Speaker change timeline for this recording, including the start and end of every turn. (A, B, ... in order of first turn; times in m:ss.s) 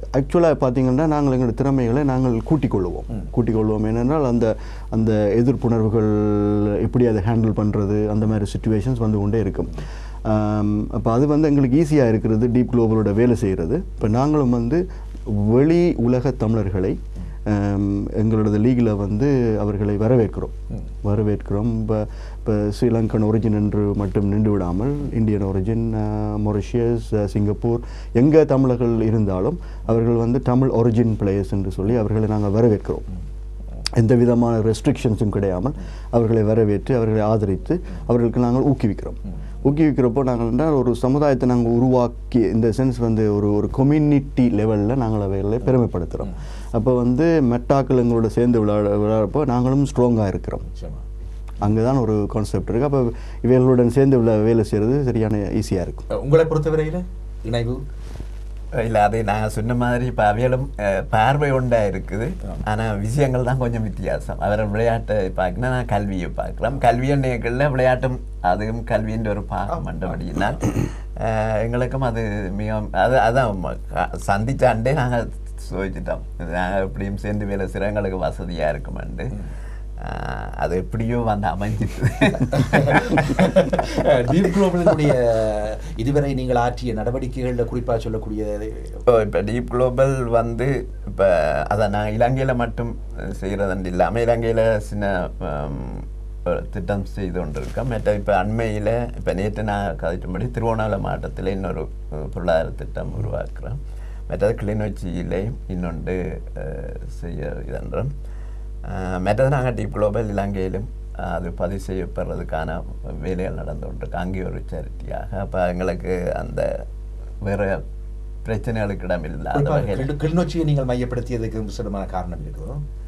0:00.1-0:33.0 A
0:34.0-0:50.7 A
0:50.7-0:51.0 B
0:51.6-0:56.0 A
0:56.1-0:57.8 B
0:58.7-1:19.3 C
1:09.7-1:10.1 B
1:20.0-1:23.8 C
1:22.4-1:29.0 B
1:29.1-1:48.1 C
1:48.8-1:56.8 C
1:57.4-1:57.8 C
1:58.4-2:00.1 C
1:59.5-2:02.8 B